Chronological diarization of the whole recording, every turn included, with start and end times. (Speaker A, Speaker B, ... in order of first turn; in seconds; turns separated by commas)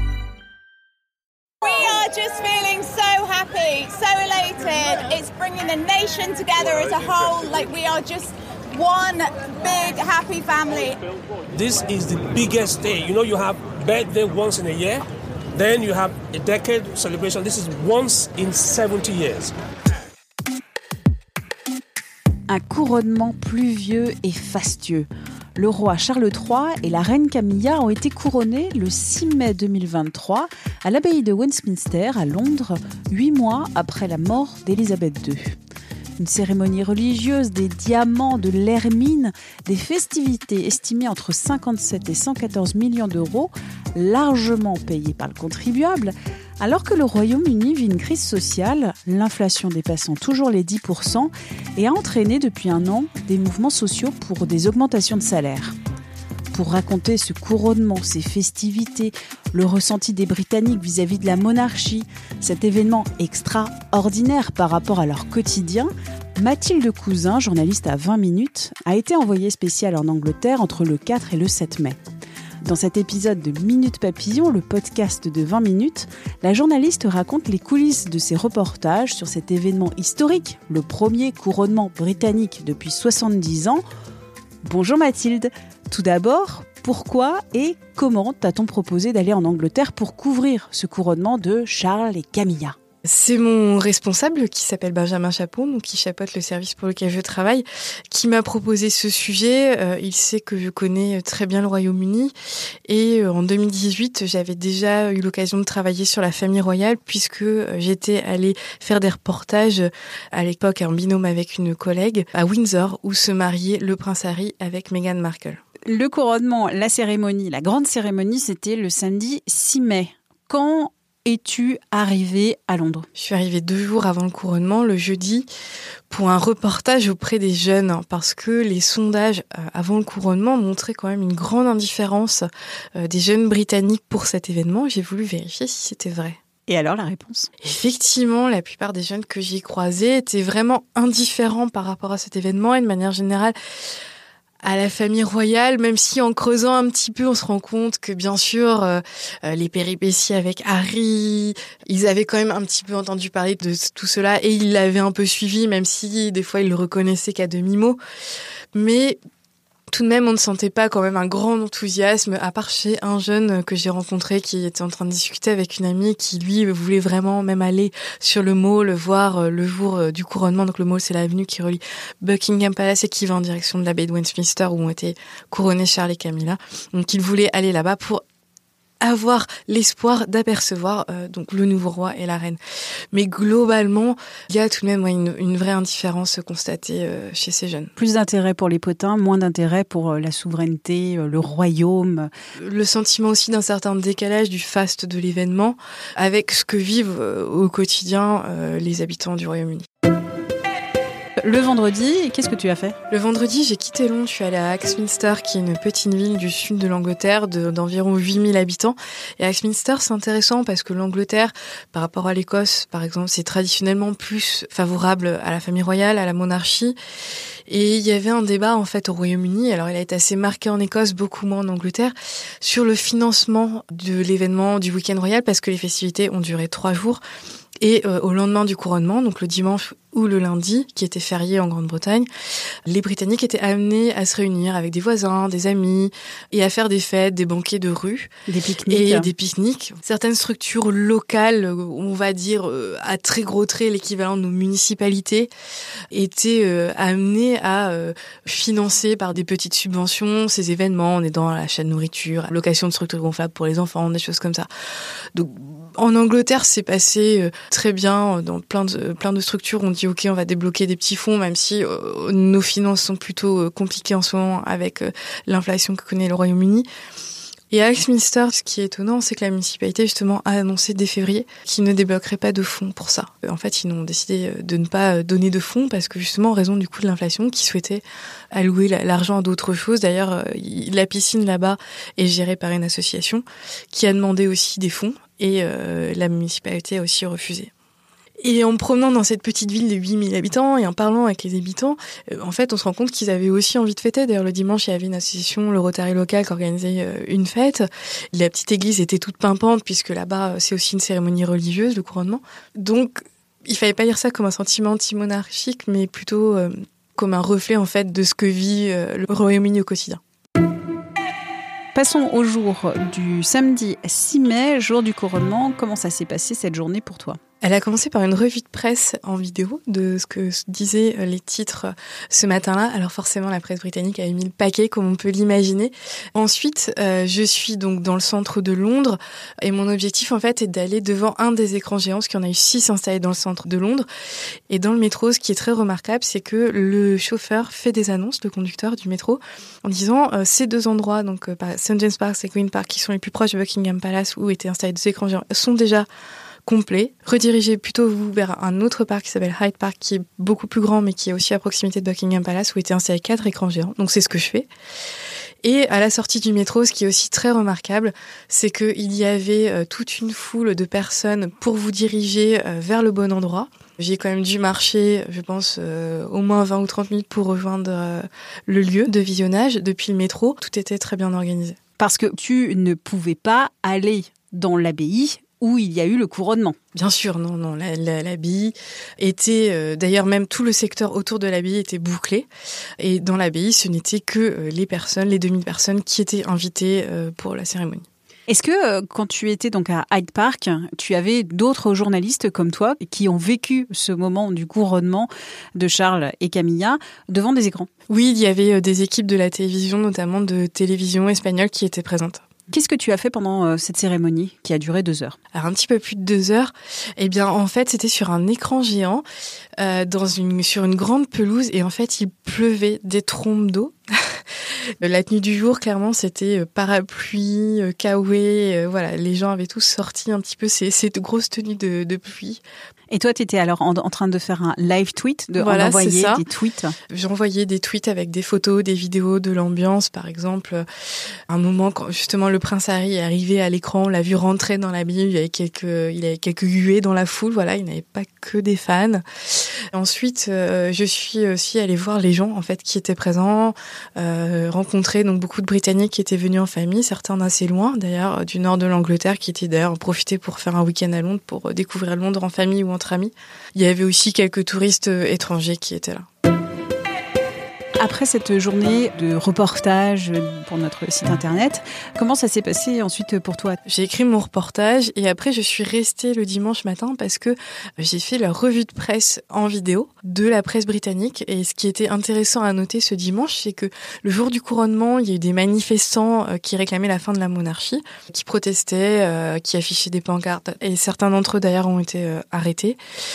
Speaker A: 1.6-11.0, Speaker B: 11.5-19.5, Speaker C: 22.5-35.5, Speaker C: 36.2-55.7, Speaker C: 56.5-72.0, Speaker C: 72.6-83.8, Speaker C: 84.6-92.7, Speaker D: 93.1-102.3, Speaker D: 102.9-115.6, Speaker C: 115.8-123.1, Speaker D: 123.1-125.5, Speaker D: 126.1-136.4, Speaker C: 136.7-137.5, Speaker D: 137.6-143.5, Speaker D: 144.6-158.0, Speaker D: 158.7-159.2, Speaker D: 159.9-178.2, Speaker D: 179.0-182.6, Speaker D: 183.1-187.9, Speaker C: 188.0-192.3, Speaker D: 192.6-199.8, Speaker C: 201.4-202.9, Speaker D: 203.1-216.9, Speaker D: 217.7-227.2, Speaker D: 227.8-232.3, Speaker D: 232.9-238.3, Speaker C: 238.5-239.3, Speaker D: 238.9-245.5, Speaker D: 246.1-254.7, Speaker D: 255.3-266.9, Speaker D: 267.7-287.7, Speaker D: 288.4-310.2, Speaker C: 311.9-317.4, Speaker D: 317.6-334.1, Speaker D: 334.7-346.1, Speaker D: 346.6-354.7, Speaker D: 355.6-371.8, Speaker C: 372.0-376.8, Speaker D: 376.9-382.5, Speaker D: 383.0-388.0, Speaker C: 388.5-397.9, Speaker D: 398.1-402.4, Speaker C: 402.7-405.4, Speaker D: 405.5-409.2, Speaker D: 409.8-413.9, Speaker D: 415.0-422.6, Speaker C: 423.1-426.9, Speaker D: 425.6-426.4, Speaker D: 427.1-430.8, Speaker D: 431.5-439.2, Speaker D: 439.9-456.2, Speaker C: 458.0-463.8, Speaker D: 463.9-483.0